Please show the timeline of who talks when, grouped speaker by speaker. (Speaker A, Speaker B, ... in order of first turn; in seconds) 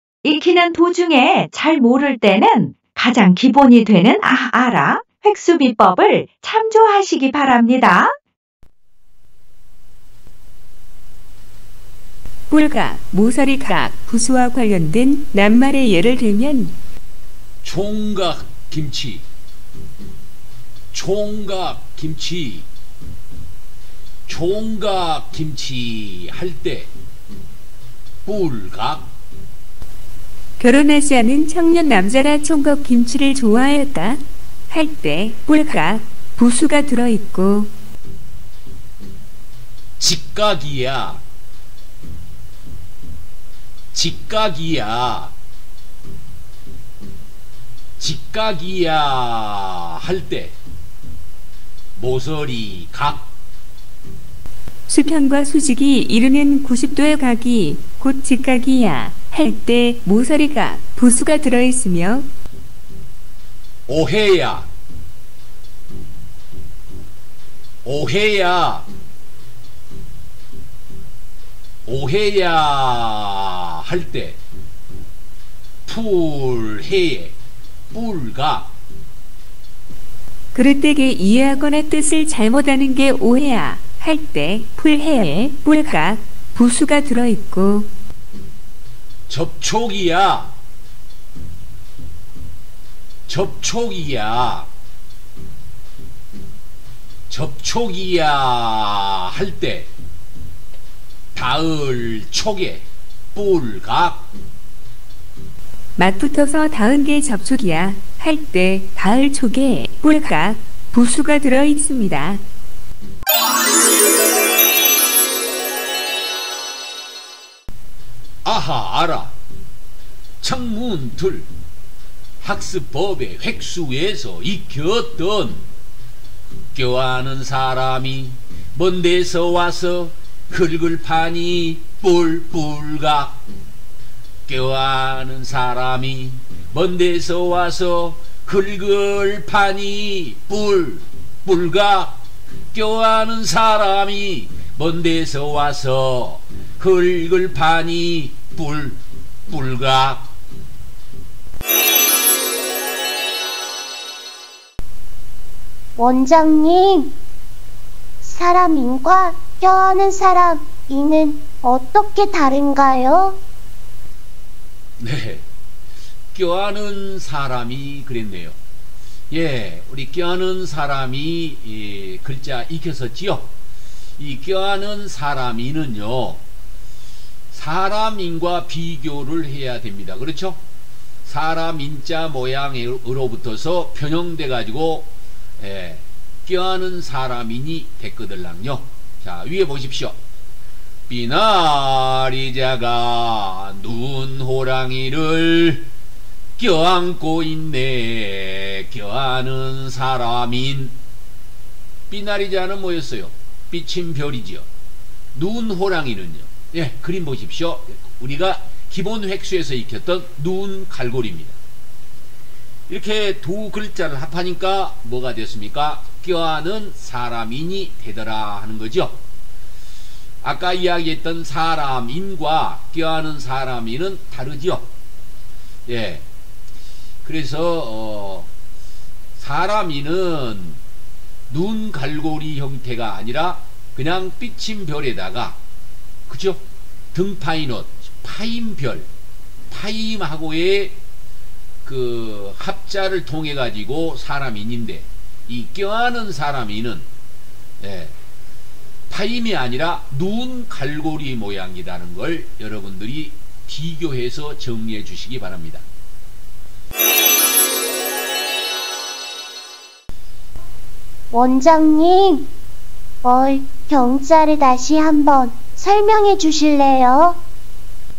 Speaker A: 0.2-8.2
Speaker B: 12.5-16.8, 30.6-37.7, 54.9-62.3, 80.5-87.9, 106.0-112.4
Speaker C: 17.6-19.2, 20.9-22.7, 24.3-26.9, 28.2-29.2, 40.0-41.2, 43.9-45.3, 48.0-50.6, 52.0-53.3, 63.9-64.7, 67.8-68.9, 71.8-74.4, 75.8-77.4, 77.9-78.7, 89.3-90.5, 93.3-94.7, 97.3-99.9, 101.3-104.3, 118.4-119.4, 120.4-121.5, 122.4-125.7, 126.7-133.4, 134.5-142.2, 142.7-150.3, 165.0-165.4, 166.3-168.6, 169.3-173.5, 174.2-176.4, 177.5-180.6, 181.2-190.2, 191.1-195.9, 196.6-200.9, 202.1-204.7, 205.3-211.6, 212.9-219.2, 220.4-224.9, 225.8-226.2, 227.2-228.5, 229.3-230.8, 231.5-235.6, 236.3-239.1, 239.7-241.0, 241.8-247.1, 247.8-248.1, 249.1-255.8
Speaker D: 156.0-157.1, 158.2-163.4, 261.3-262.5, 263.2-267.4